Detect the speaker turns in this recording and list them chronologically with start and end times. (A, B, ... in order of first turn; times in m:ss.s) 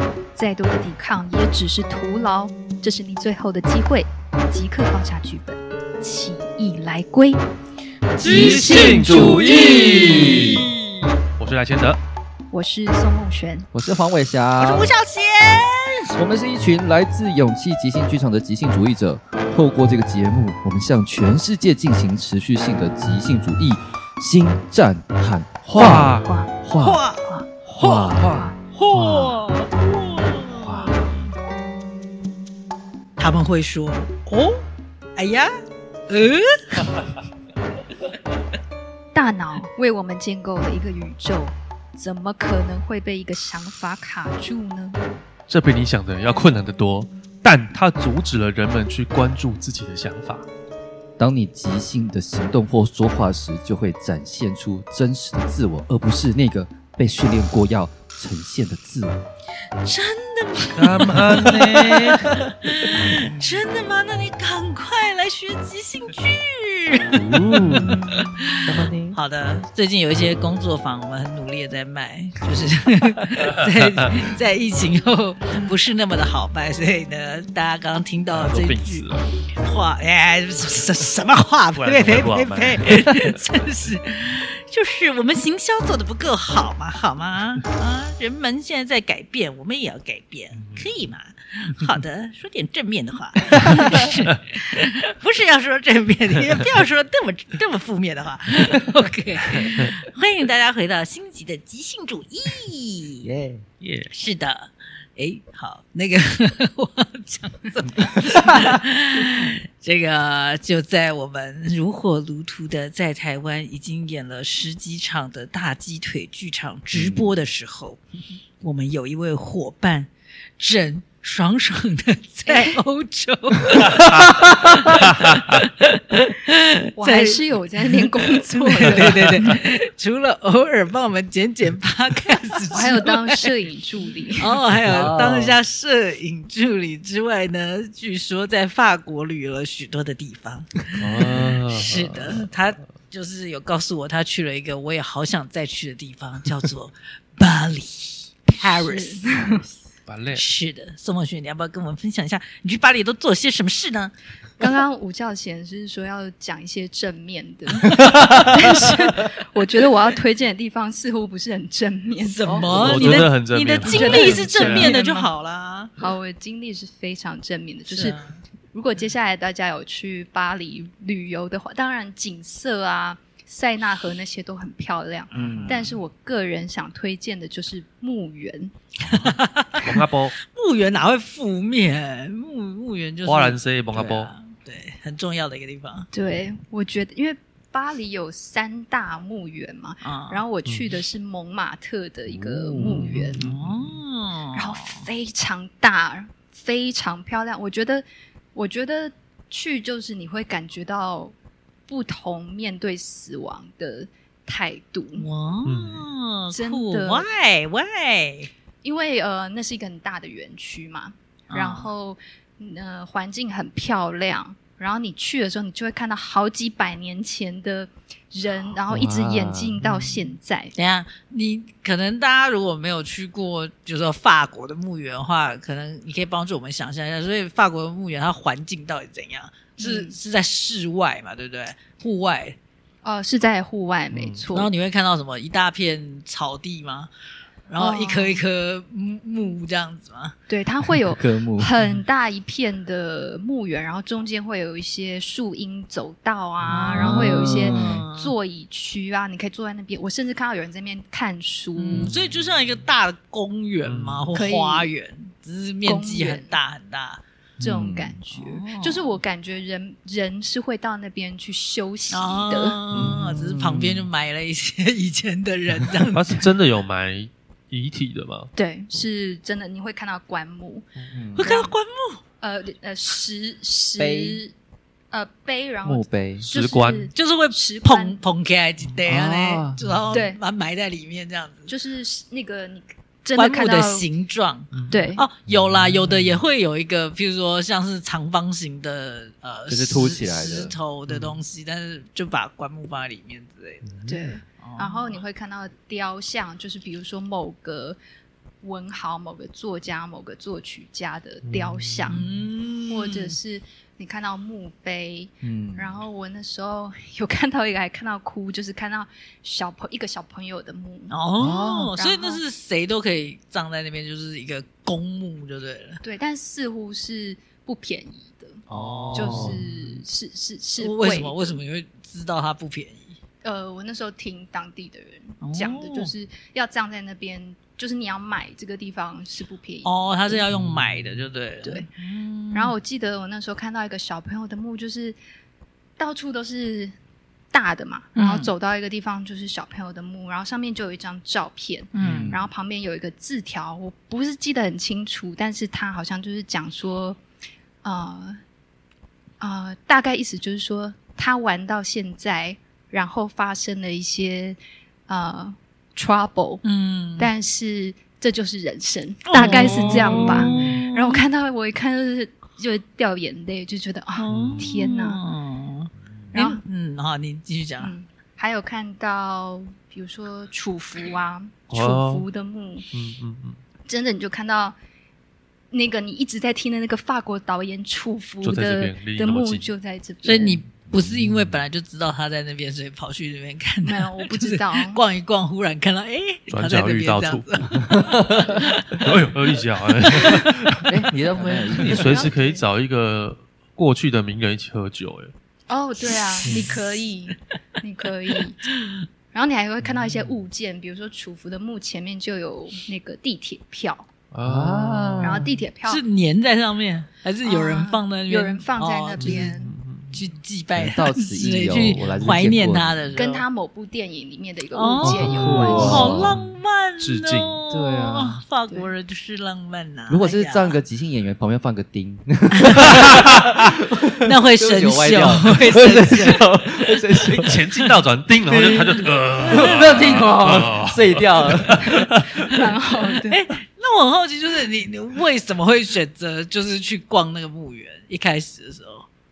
0:00.4-0:07.4 A
0:08.2-0:09.5 A
0:08.2-0:11.0 B
0:08.2-0:10.6 C
0:08.2-0:10.6 D
0:11.4-0:12.0 D
0:12.5-0:13.7 A
0:13.7-0:14.9 C
0:14.6-0:16.2 B
0:16.2-0:27.0 C
0:25.7-0:26.3 D
0:25.8-0:26.5 A
0:26.8-0:27.3 B
0:27.7-0:29.4 C
0:27.8-0:28.1 B
0:28.2-0:28.5 A
0:28.7-0:31.2 B
0:30.6-0:31.1 C
0:33.2-0:34.6 B
0:35.2-0:35.5 B
0:36.1-0:36.9 B
0:39.1-0:45.0 A
0:45.5-0:50.5 D
0:51.2-0:59.2 C
0:59.8-1:07.5 B
1:00.8-1:02.5 D
1:03.0-1:03.6 C
1:07.2-1:08.0 D
1:07.2-1:08.0 C
1:08.1-1:43.3 B
1:08.7-1:09.2 D
1:08.7-1:09.1 C
1:13.6-1:14.3 D
1:18.3-1:19.2 D
1:21.8-1:23.4 D
1:30.5-1:30.9 D
1:33.6-1:33.9 C
1:43.2-1:43.6 C
1:43.8-1:44.1 D
1:44.1-1:58.0 B
1:48.3-1:48.6 C
1:56.9-1:57.3 C
1:58.6-2:13.5 B
2:02.5-2:02.8 A
2:03.9-2:04.2 D
2:05.1-2:05.4 D
2:07.0-2:09.6 A
2:12.7-2:14.6 A
2:14.4-2:20.8 B
2:14.8-2:15.6 C
2:21.0-2:21.5 C
2:21.0-2:22.5 D
2:21.7-2:29.3 B
2:28.6-2:29.6 A
2:29.4-2:29.7 C
2:30.1-2:30.4 D
2:30.3-2:34.1 B
2:34.6-2:43.3 A
2:42.2-2:45.9 B
2:42.7-2:45.0 D
2:43.8-2:45.3 A
2:46.0-2:48.2 A
2:47.9-2:48.4 B
2:48.7-2:58.7 A
2:55.3-2:55.9 C
2:55.3-2:56.0 B
2:59.0-3:06.1 B
2:59.8-3:00.4 D
3:03.2-3:04.3 D
3:06.1-3:13.4 A
3:10.0-3:10.4 B
3:12.3-3:13.4 C
3:12.8-3:14.0 D
3:13.4-3:15.0 B
3:14.5-3:21.3 A
3:21.9-3:25.3 A
3:25.2-3:28.5 B
3:25.7-3:26.1 D
3:26.5-3:27.3 A
3:28.8-3:40.7 A
3:31.5-3:31.9 B
3:38.9-3:40.2 C
3:40.8-3:52.6 B
3:49.8-3:50.2 A
3:53.0-3:54.7 A
3:54.1-3:54.4 C
3:54.5-3:57.1 B
3:57.7-4:00.4 B
3:57.8-3:58.4 A
4:00.5-4:12.1 A
4:01.0-4:01.7 C
4:06.7-4:08.4 B
4:06.9-4:08.1 C
4:11.8-4:17.2 B
4:13.8-4:14.4 D
4:14.3-4:14.9 A
4:15.8-4:16.6 A
4:17.6-4:18.2 C
4:17.6-4:22.8 A
4:18.3-4:19.2 B
4:22.1-4:26.4 B
4:22.9-4:23.2 D
4:22.9-4:24.1 C
4:26.1-4:28.5 D
4:28.6-4:30.9 A
4:31.1-4:31.5 C
4:31.4-4:32.2 B
4:31.4-4:31.7 A
4:32.4-4:34.5 A
4:34.0-4:34.4 C
4:35.1-4:38.2 A
4:35.8-4:36.5 C
4:36.4-4:37.1 D
4:37.1-4:41.7 B
4:39.1-4:39.8 C
4:40.1-4:40.4 A
4:41.7-4:44.1 A
4:43.4-4:53.9 B
4:44.7-4:45.1 D
4:44.9-4:45.2 A
4:45.5-4:46.3 C
4:49.7-4:50.7 C
4:51.1-4:51.4 D
4:53.9-4:54.2 D
4:54.1-4:58.0 A
4:54.6-4:55.2 B
4:58.6-5:02.2 A
5:01.5-5:02.2 D
5:02.1-5:03.4 B
5:02.9-5:11.1 A
5:05.4-5:06.0 C
5:11.1-5:16.0 B
5:11.4-5:11.9 C
5:12.0-5:12.4 A
5:16.0-5:18.6 A
5:18.7-5:19.6 B
5:18.7-5:19.6 D
5:19.1-5:19.7 C
5:19.2-5:21.5 A
5:20.8-5:23.2 B
5:23.4-5:30.4 A
5:25.4-5:26.1 B
5:29.8-5:32.7 B
5:30.5-5:31.2 D
5:31.6-5:31.9 A
5:32.5-5:35.2 A
5:36.0-5:36.9 A
5:37.5-5:47.2 A
5:38.2-5:38.5 B
5:41.9-5:42.3 B
5:42.0-5:42.5 C
5:47.8-5:48.4 A
5:49.4-5:56.6 A
5:56.6-5:57.3 B
5:57.2-6:05.2 A
5:59.3-6:01.2 B
6:04.2-6:07.9 B
6:04.3-6:04.9 D
6:06.3-6:06.6 A
6:07.8-6:12.9 A
6:11.7-6:12.3 D
6:12.9-6:13.6 D
6:13.9-6:14.8 A
6:15.7-6:20.6 A
6:18.4-6:19.7 D
6:20.2-6:29.1 B
6:20.9-6:21.6 C
6:23.8-6:25.0 A
6:26.5-6:27.7 D
6:27.7-6:28.7 C
6:29.0-6:31.0 D
6:30.9-6:32.3 C
6:31.4-6:32.6 A
6:31.8-6:35.3 D
6:35.7-6:38.6 A
6:36.1-6:36.8 B
6:36.5-6:36.8 D
6:38.6-6:39.0 B
6:39.3-6:44.1 A
6:39.8-6:40.4 D
6:44.3-6:45.5 D
6:44.4-6:45.5 C
6:45.2-6:46.0 A
6:45.8-6:49.6 B
6:47.4-6:49.7 A
6:49.2-6:50.3 D
6:50.1-6:53.4 B
6:50.8-6:53.0 C
6:51.8-6:52.5 D
6:53.1-6:56.2 A
6:54.7-7:00.8 B
6:55.0-6:56.4 C
6:55.5-6:57.6 D
6:57.7-6:58.4 C
7:00.1-7:07.6 C
7:02.5-7:03.0 B
7:03.0-7:03.6 D
7:04.2-7:06.5 B
7:07.2-7:07.9 B
7:07.4-7:12.5 D
7:08.5-7:12.1 C
7:09.4-7:10.3 B
7:12.4-7:13.4 A
7:13.2-7:19.1 B